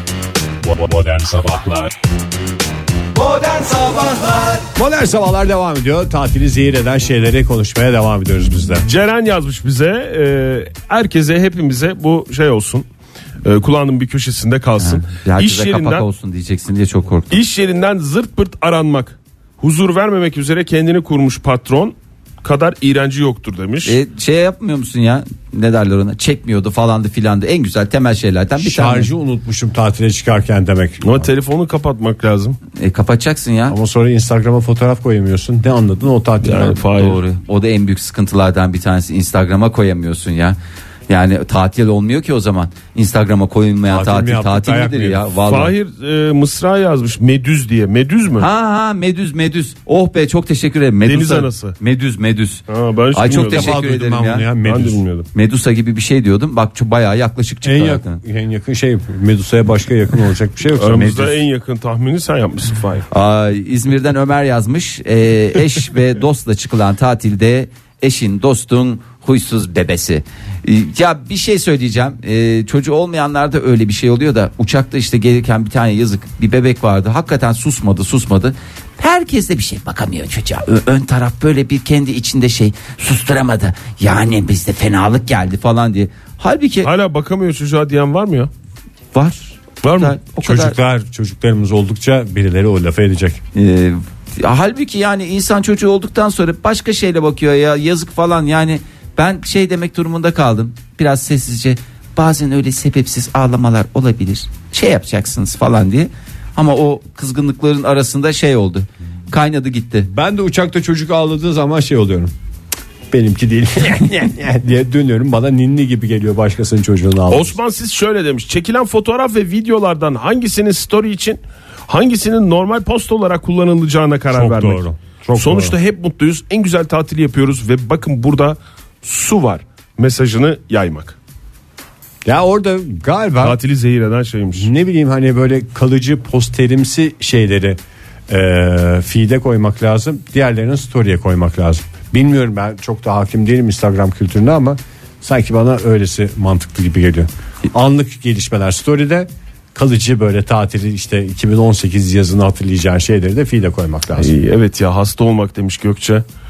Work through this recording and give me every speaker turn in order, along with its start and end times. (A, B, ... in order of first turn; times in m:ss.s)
0:00.6-0:01.9 A
0:03.3-0:04.5 B
0:04.7-0:08.8 A
0:08.8-0:12.8 C
0:13.4-0:16.0 C
0:14.8-0:17.4 B
0:17.3-0:23.9 C
0:23.8-0:29.1 B
0:28.6-0:31.3 A
0:31.0-0:32.6 C
0:32.8-0:33.8 B
0:33.7-0:36.8 A
0:36.4-0:37.2 C
0:37.0-0:40.6 B
0:41.1-0:45.7 B
0:43.9-0:45.2 A
0:45.4-0:48.5 C
0:48.4-0:54.5 B
0:51.0-0:51.8 C
0:52.7-0:53.8 C
0:53.2-0:55.0 A
0:54.6-0:55.3 C
0:55.3-0:58.2 B
0:57.6-1:01.3 A
1:00.7-1:03.0 C
1:03.1-1:26.9 B
1:26.8-1:28.5 C
1:29.1-1:30.8 B
1:29.8-1:30.1 C
1:30.4-1:33.4 A
1:33.5-1:50.1 B
1:50.1-1:52.3 A
1:53.1-1:57.6 A
1:57.3-2:11.2 C
2:04.3-2:05.8 A
2:12.2-2:13.6 A
2:13.4-2:14.7 C
2:14.6-2:17.8 A
2:18.3-2:34.4 A
2:34.2-2:36.2 C